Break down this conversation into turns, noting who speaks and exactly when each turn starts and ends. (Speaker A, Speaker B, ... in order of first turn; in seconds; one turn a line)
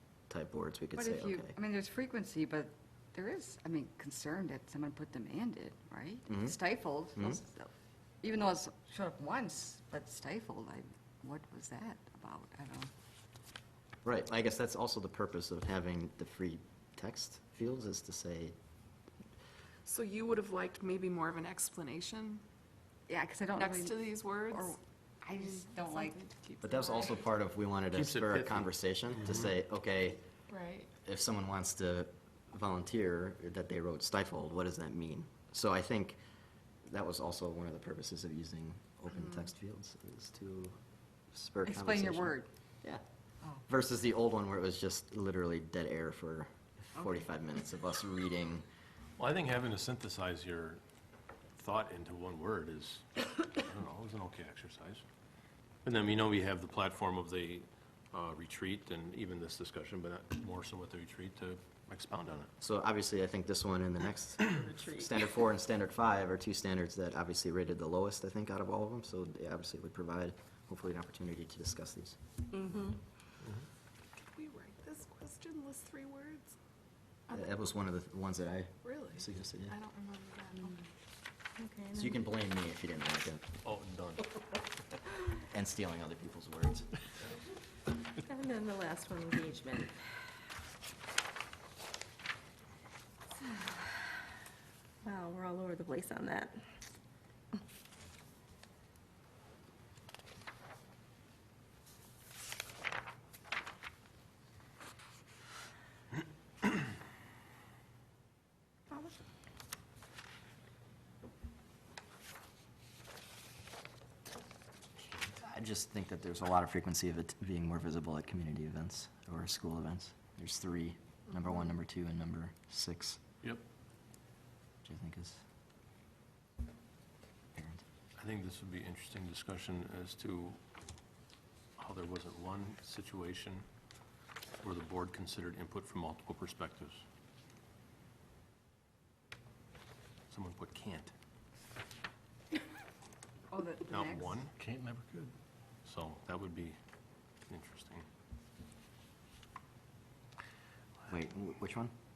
Speaker A: 0.3-1.5
Speaker B: 0.9-7.7
Speaker A: 6.3-6.6
Speaker B: 8.2-12.9
Speaker A: 14.0-18.5
Speaker C: 19.9-22.4
Speaker B: 23.1-26.2
Speaker C: 23.6-27.2
Speaker A: 26.6-30.2
Speaker D: 27.9-29.5
Speaker C: 30.5-30.9
Speaker A: 31.0-36.2
Speaker A: 36.9-40.8
Speaker C: 39.1-39.5
Speaker A: 41.3-43.0
Speaker B: 41.6-42.5
Speaker A: 43.7-48.6
Speaker D: 49.2-50.8
Speaker D: 51.5-55.0
Speaker D: 55.8-62.5
Speaker A: 62.6-72.2
Speaker E: 64.5-65.2
Speaker E: 72.5-73.0
Speaker C: 74.2-76.5
Speaker A: 77.3-79.8
Speaker C: 78.8-80.9
Speaker E: 81.6-82.2
Speaker A: 81.9-83.4
Speaker D: 83.6-84.4
Speaker A: 85.4-86.9
Speaker E: 88.2-89.9
Speaker E: 95.0-96.5
Speaker E: 108.9-109.1
Speaker A: 115.2-123.2
Speaker A: 124.8-125.4
Speaker A: 127.5-127.8
Speaker D: 128.2-130.6
Speaker D: 131.8-133.6
Speaker D: 134.6-137.0
Speaker D: 140.3-141.1
Speaker B: 143.5-144.5
Speaker D: 143.9-145.3
Speaker D: 145.8-146.8
Speaker D: 147.5-148.1
Speaker A: 151.1-151.9